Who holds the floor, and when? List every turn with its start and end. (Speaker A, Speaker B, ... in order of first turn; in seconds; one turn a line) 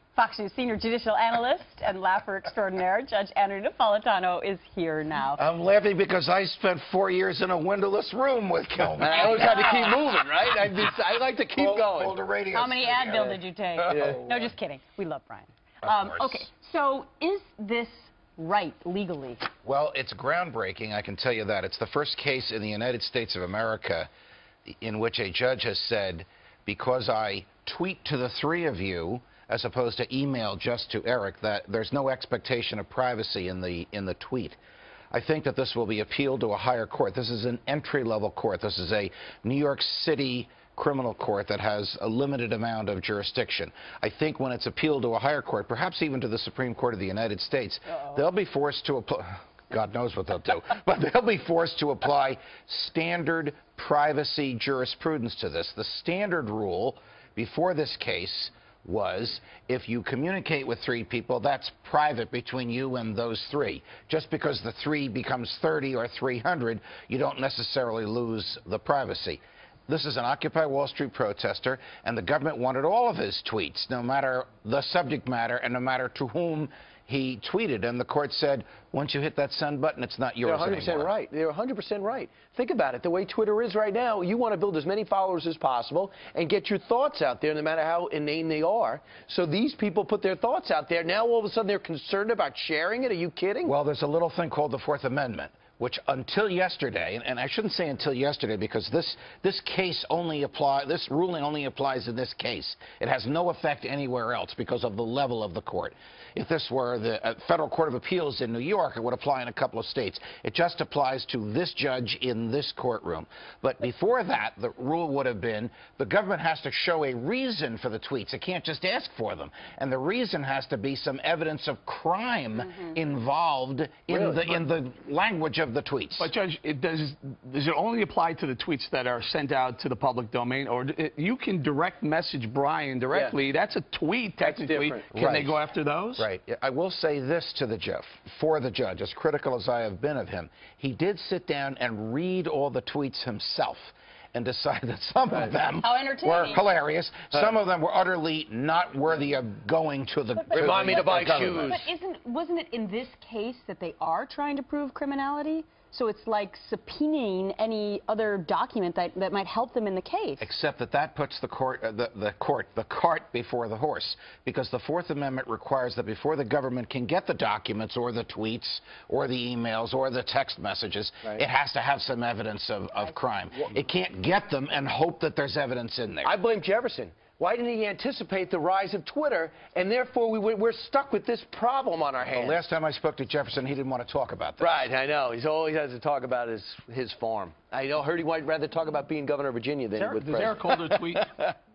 Speaker A: 0.1-5.4
Speaker B: 5.3-9.5
Speaker C: 9.0-12.1
Speaker A: 9.0-9.9
Speaker B: 11.6-13.0
Speaker A: 12.5-19.5
Speaker C: 13.9-14.2
Speaker B: 15.8-16.4
Speaker B: 19.6-24.1
Speaker B: 24.6-34.6
Speaker B: 35.1-81.1
Speaker C: 80.4-93.7
Speaker B: 93.7-126.3
Speaker A: 122.7-122.9
Speaker C: 124.1-124.5
Speaker D: 126.2-136.3
Speaker C: 134.4-135.0
Speaker B: 135.1-135.6
Speaker B: 136.2-151.7
Speaker A: 145.8-146.6
Speaker A: 150.5-160.4
Speaker C: 150.5-151.9
Speaker B: 160.4-176.3
Speaker C: 176.2-182.6
Speaker B: 182.3-184.8
Speaker C: 184.6-191.4
Speaker D: 189.9-191.3